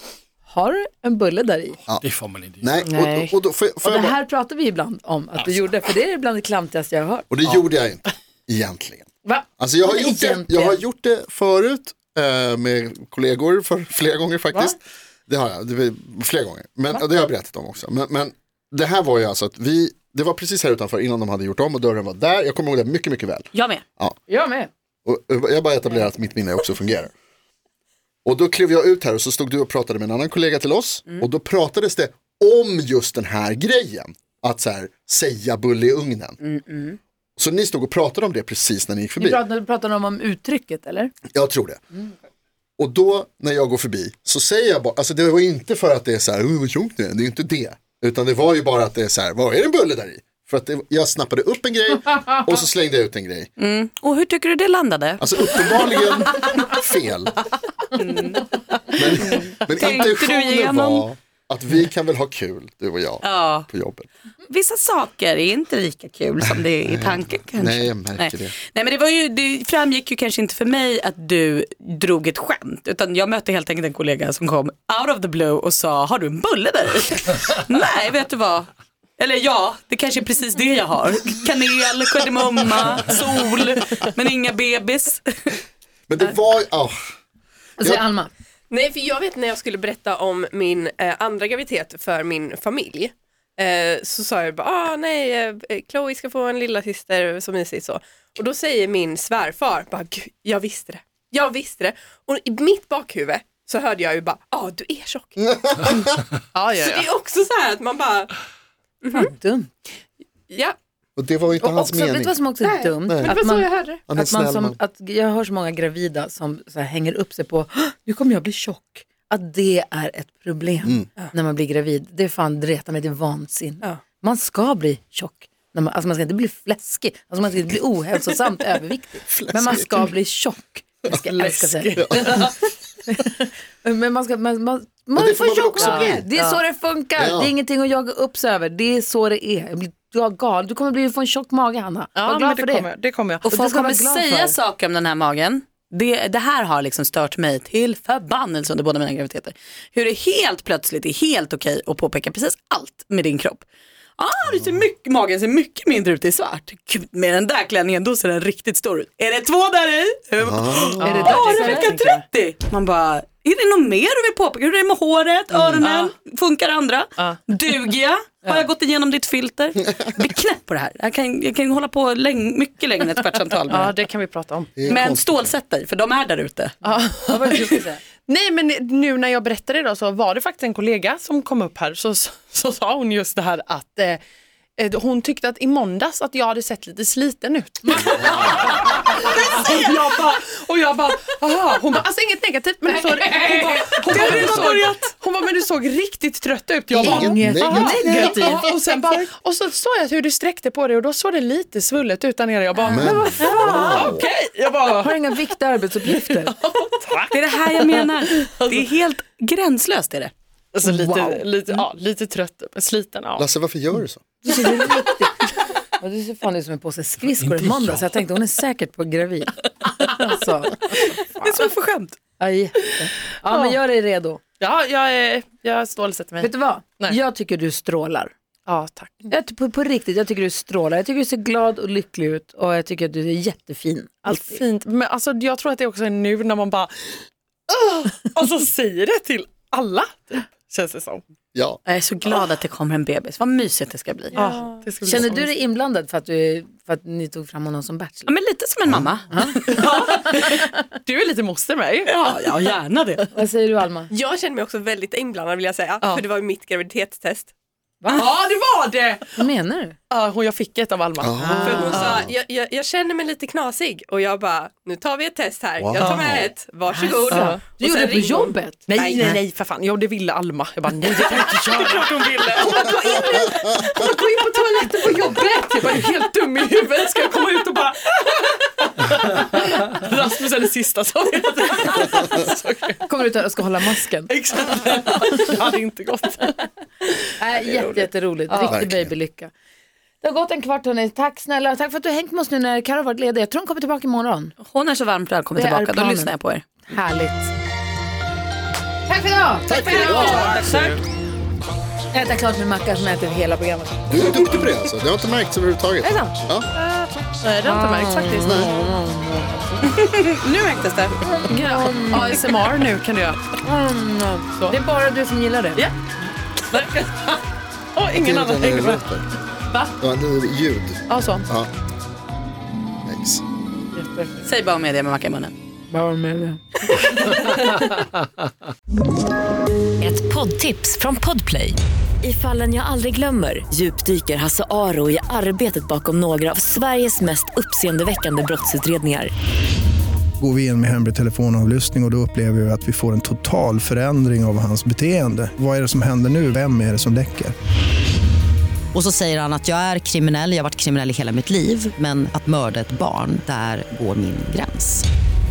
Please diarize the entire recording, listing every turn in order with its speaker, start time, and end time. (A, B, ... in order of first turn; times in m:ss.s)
0:00.4-0:01.8 A
0:02.0-0:02.7 B
0:02.6-0:04.2 C
0:02.8-0:03.3 D
0:03.8-0:07.3 A
0:07.3-0:09.1 C
0:09.2-0:10.8 A
0:09.6-0:24.2 C
0:23.5-0:23.8 E
0:24.3-0:24.7 A
0:25.1-0:27.1 C
0:28.2-0:36.4 C
0:36.4-0:37.0 E
0:37.4-0:39.4 C
0:39.2-0:41.1 A
0:41.3-0:41.8 C
0:42.8-0:53.5 C
0:53.6-0:55.6 E
0:55.2-0:57.4 C
0:57.9-1:01.1 E
0:58.9-1:04.1 C
1:03.2-1:03.7 E
1:04.5-1:25.6 E
1:06.4-1:08.6 C
1:26.1-1:27.0 C
1:27.8-1:28.3 A
1:28.7-1:45.8 F
1:46.5-1:47.1 D
1:46.8-1:48.3 F
1:49.0-1:49.3 F
1:49.1-1:49.7 A
1:50.5-1:50.8 F
1:51.2-1:52.4 C
1:51.6-2:22.9 A
1:52.6-1:54.0 F
1:53.1-1:53.4 C
1:54.1-1:54.8 C
2:09.2-2:10.1 C
2:11.3-2:12.5 D
2:12.0-2:12.3 C
2:15.2-2:16.2 C
2:15.8-2:16.6 D
2:17.2-2:17.5 C
2:22.2-2:23.5 D
2:23.4-2:33.6 E
2:23.5-2:24.6 A
2:34.2-2:54.0 E
2:40.4-2:41.2 C
2:41.0-2:42.2 D
2:41.0-2:42.0 A
2:45.8-2:46.1 D
2:53.7-2:54.8 D
2:54.8-2:55.5 C
2:54.8-2:56.9 E
2:56.8-2:57.6 D
2:56.9-2:58.0 A
2:57.5-2:57.8 E
2:58.3-3:04.2 D
3:04.8-3:25.4 D
3:13.2-3:14.8 A
3:16.9-3:18.6 C
3:17.0-3:18.6 A
3:22.9-3:24.2 C
3:22.9-3:24.2 A
3:25.0-3:26.6 A
3:26.1-3:28.9 D
3:27.3-3:30.3 E
3:30.7-3:33.5 D
3:30.8-3:31.9 A
3:33.4-3:34.2 C
3:34.4-3:41.7 A
3:37.3-3:38.1 B
3:40.9-3:42.2 E
3:42.4-3:44.4 A
3:44.6-3:47.2 D
3:46.4-3:48.3 A
3:48.7-3:49.3 D
3:49.3-3:54.6 A
3:54.3-4:01.2 D
4:01.5-4:01.8 C
4:01.9-4:04.4 E
4:04.3-4:05.6 D
4:04.3-4:08.3 A
4:08.3-4:10.0 E
4:09.3-4:10.6 A
4:09.7-4:12.3 D
4:12.1-4:13.3 E
4:13.3-4:14.1 A
4:14.1-4:17.5 F
4:18.0-4:18.3 A
4:18.1-4:19.4 D
4:19.4-4:20.0 A
4:20.1-4:22.1 D
4:21.2-4:22.3 C
4:21.6-4:29.4 F
4:25.8-4:26.5 C
4:26.9-4:28.9 A
4:27.3-4:43.0 D
4:32.8-4:35.5 A
4:43.0-4:44.3 A
4:44.3-4:46.7 D
4:47.4-4:49.5 A
4:47.5-4:48.8 D
4:48.7-4:49.1 C
4:50.2-4:54.6 A
4:54.6-4:56.6 E
4:55.6-4:56.3 A
4:56.8-4:57.5 A
4:59.1-5:00.6 A
4:59.7-5:00.5 C
5:00.1-5:00.5 F
5:00.6-5:01.0 B
5:02.1-5:04.6 A
5:04.1-5:06.7 C
5:06.0-5:06.3 A
5:07.4-5:08.7 D
5:07.7-5:09.9 A
5:08.4-5:08.7 C
5:09.9-5:11.2 E
5:11.2-5:12.6 A
5:11.5-5:13.5 D
5:13.6-5:15.9 A
5:16.7-5:17.4 D
5:18.0-5:19.1 D
5:18.1-5:19.3 C
5:19.7-5:20.0 D
5:20.0-5:21.7 C
5:21.1-5:21.5 D
5:23.0-5:23.4 C
5:24.0-5:24.4 A
5:24.4-5:25.5 E
5:25.9-5:27.6 A
5:30.0-5:39.3 G
5:40.4-5:47.6 H
5:48.9-5:55.0 I